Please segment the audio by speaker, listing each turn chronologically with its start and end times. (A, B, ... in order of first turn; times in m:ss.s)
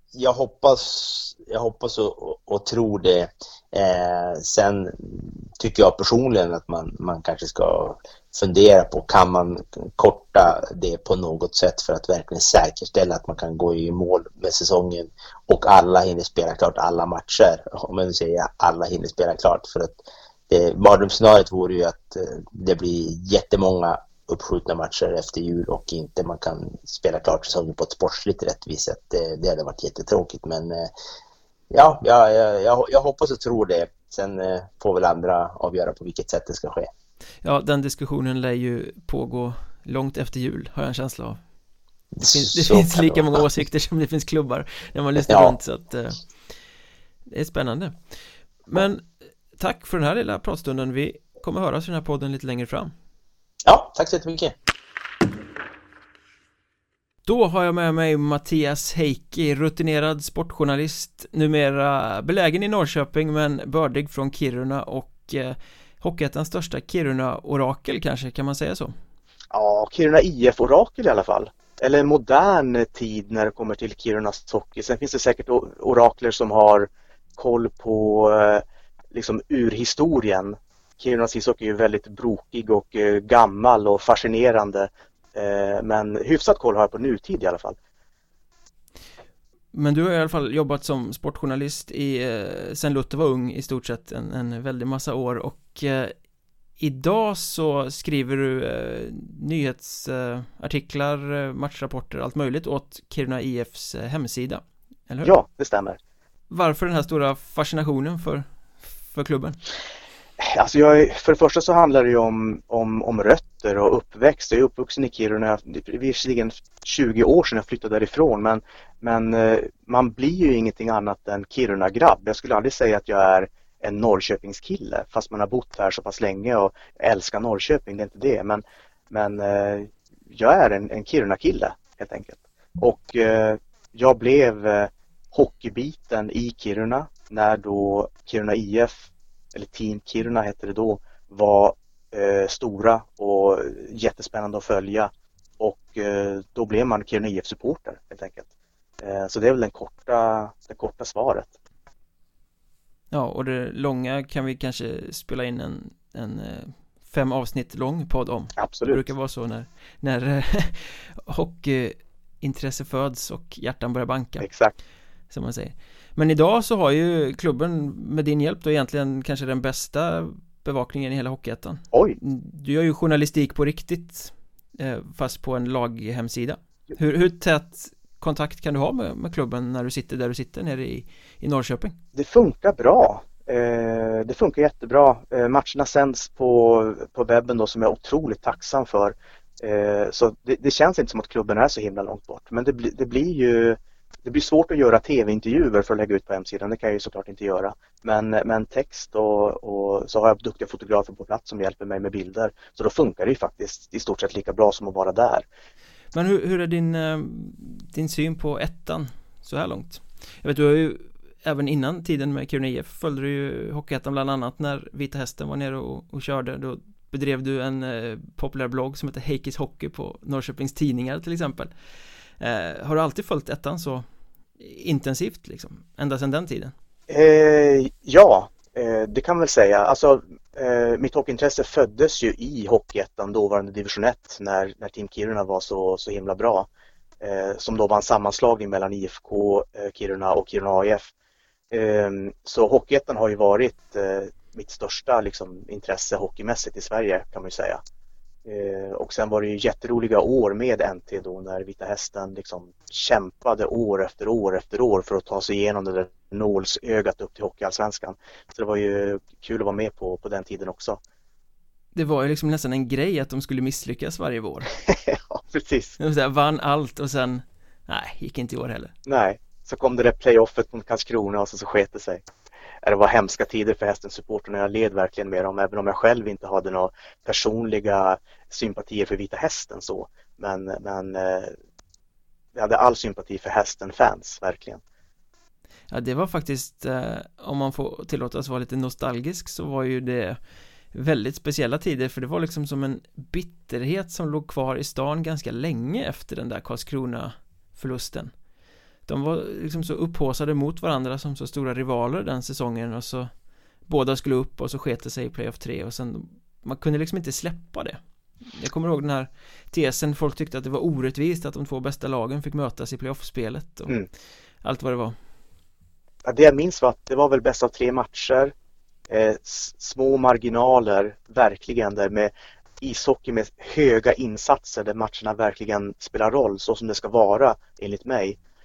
0:00.1-0:30.9 A
0:31.7-0:36.9 A
0:37.4-0:41.4 B
0:42.2-0:43.4 A
0:42.3-0:46.2 B
0:45.2-0:45.5 A
0:47.3-0:48.0 B
0:48.6-0:52.9 B
0:53.6-0:54.5 A
0:57.2-1:08.9 B
1:09.5-1:27.8 C
1:29.7-1:36.2 B
1:36.8-1:45.3 B
1:45.2-1:46.0 C
1:46.5-1:49.6 B
1:50.4-2:18.9 C
2:19.5-2:28.4 C
2:29.0-2:31.5 C
2:33.1-2:44.4 B
2:38.6-2:39.0 C
2:44.4-2:44.8 C
2:45.3-3:01.9 B
2:51.9-2:52.2 C
3:02.1-3:25.4 C
3:26.1-3:41.7 B
3:42.4-3:46.7 B
3:47.1-3:56.7 C
3:57.2-4:01.1 C
4:01.7-4:07.8 C
4:08.4-4:21.0 C
4:21.9-4:24.7 B
4:24.9-4:26.0 C
4:26.0-4:28.9 B
4:29.0-4:32.2 C
4:32.8-4:41.5 C
4:42.5-4:44.8 C
4:45.9-4:58.4 B
4:59.0-5:14.0 B
5:14.6-5:15.1 B
5:16.2-5:18.5 C
5:19.1-5:28.4 C